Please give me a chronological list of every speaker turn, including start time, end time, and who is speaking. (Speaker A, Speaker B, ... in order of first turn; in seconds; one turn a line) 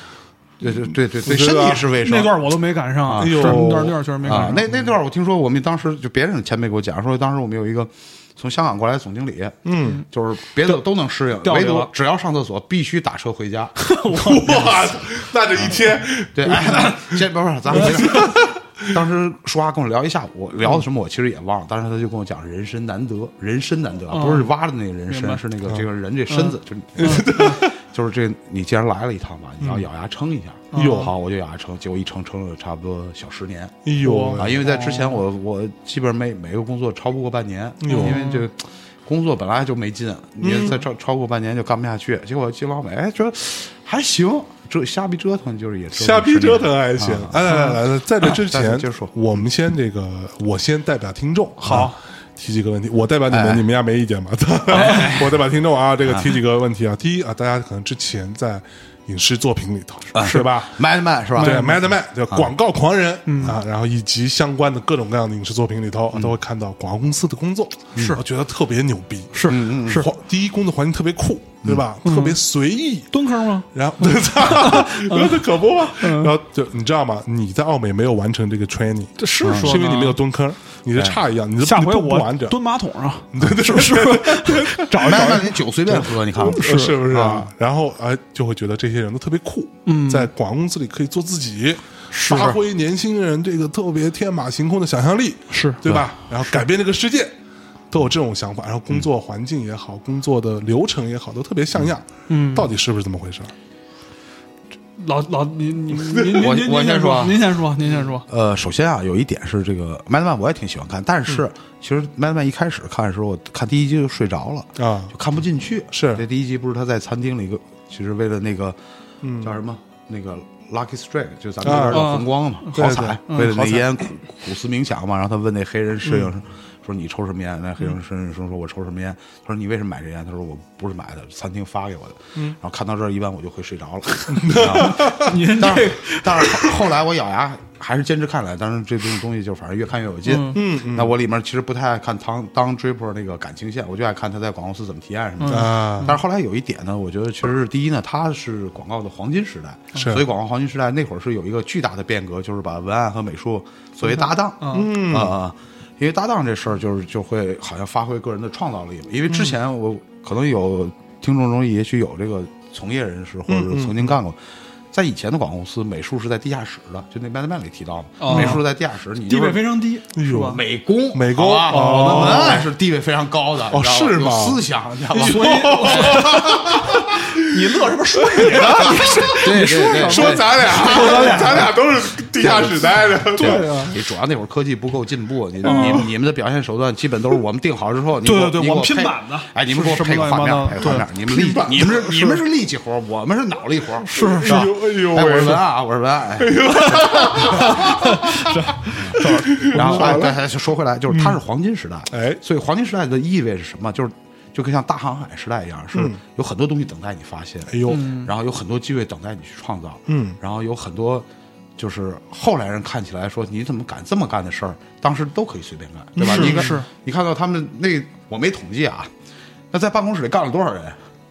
Speaker A: 0.6-13.8
Speaker B: 1.2-1.9
Speaker C: 1.9-4.8
Speaker B: 3.2-4.0
Speaker B: 9.7-10.0
Speaker C: 11.4-11.9
Speaker C: 13.8-15.0
Speaker B: 14.1-17.2
Speaker A: 16.3-33.8
Speaker C: 16.5-17.0
Speaker B: 17.7-18.9
Speaker C: 17.8-18.3
Speaker C: 24.1-24.5
Speaker C: 25.1-25.4
Speaker C: 26.3-27.6
Speaker B: 27.0-27.8
Speaker B: 29.6-29.9
Speaker C: 30.7-31.1
Speaker B: 30.7-31.1
Speaker B: 33.9-34.6
Speaker C: 34.0-35.2
Speaker A: 34.3-47.7
Speaker B: 37.8-38.2
Speaker C: 37.9-38.5
Speaker B: 40.4-40.8
Speaker B: 46.0-60.7
Speaker C: 47.5-47.8
Speaker A: 48.2-49.1
Speaker C: 51.6-52.0
Speaker A: 53.3-53.6
Speaker A: 54.7-55.4
Speaker C: 54.8-55.1
Speaker A: 56.1-56.4
Speaker A: 60.1-61.7
Speaker C: 60.2-60.5
Speaker B: 61.4-73.2
Speaker C: 61.4-61.9
Speaker C: 63.3-63.6
Speaker C: 68.0-68.2
Speaker C: 69.3-70.1
Speaker A: 69.5-70.1
Speaker C: 72.0-72.4
Speaker C: 73.1-76.3
Speaker B: 73.7-82.6
Speaker C: 79.2-80.2
Speaker A: 79.4-79.8
Speaker C: 81.6-87.1
Speaker B: 83.3-85.4
Speaker A: 85.0-87.5
Speaker B: 86.3-97.3
Speaker C: 89.9-90.3
Speaker C: 92.1-92.6
Speaker C: 95.5-96.6
Speaker B: 97.9-103.5
Speaker C: 102.3-102.7
Speaker C: 105.0-108.2
Speaker A: 106.3-107.6
Speaker A: 108.2-118.8
Speaker B: 114.8-115.1
Speaker B: 115.9-116.2
Speaker B: 119.2-119.5
Speaker A: 119.4-164.4
Speaker B: 121.6-122.1
Speaker C: 121.9-123.7
Speaker B: 122.7-123.8
Speaker B: 126.0-126.3
Speaker B: 134.3-135.4
Speaker C: 134.8-136.8
Speaker C: 140.3-140.6
Speaker B: 140.5-141.2
Speaker C: 145.4-146.1
Speaker B: 145.5-146.2
Speaker C: 154.6-154.9
Speaker B: 154.7-155.3
Speaker B: 159.3-159.6
Speaker B: 163.5-164.2
Speaker A: 164.9-169.8
Speaker C: 168.2-168.6
Speaker B: 168.3-168.6
Speaker C: 169.2-170.6
Speaker B: 170.1-172.7
Speaker A: 170.4-176.3
Speaker C: 171.7-172.7
Speaker B: 173.7-183.9
Speaker C: 175.2-181.7
Speaker A: 179.3-181.7
Speaker A: 182.4-197.1
Speaker C: 183.4-183.9
Speaker B: 185.6-186.1
Speaker C: 185.6-186.1
Speaker C: 188.2-192.0
Speaker B: 191.3-192.4
Speaker C: 194.0-194.7
Speaker B: 194.2-195.7
Speaker B: 196.4-200.4
Speaker C: 196.7-200.3
Speaker A: 198.9-219.1
Speaker B: 201.1-201.4
Speaker B: 202.1-202.4
Speaker B: 205.9-206.2
Speaker B: 207.7-208.1
Speaker C: 207.9-208.3
Speaker B: 210.1-210.4
Speaker B: 216.2-216.8
Speaker C: 216.2-216.9
Speaker A: 219.7-221.0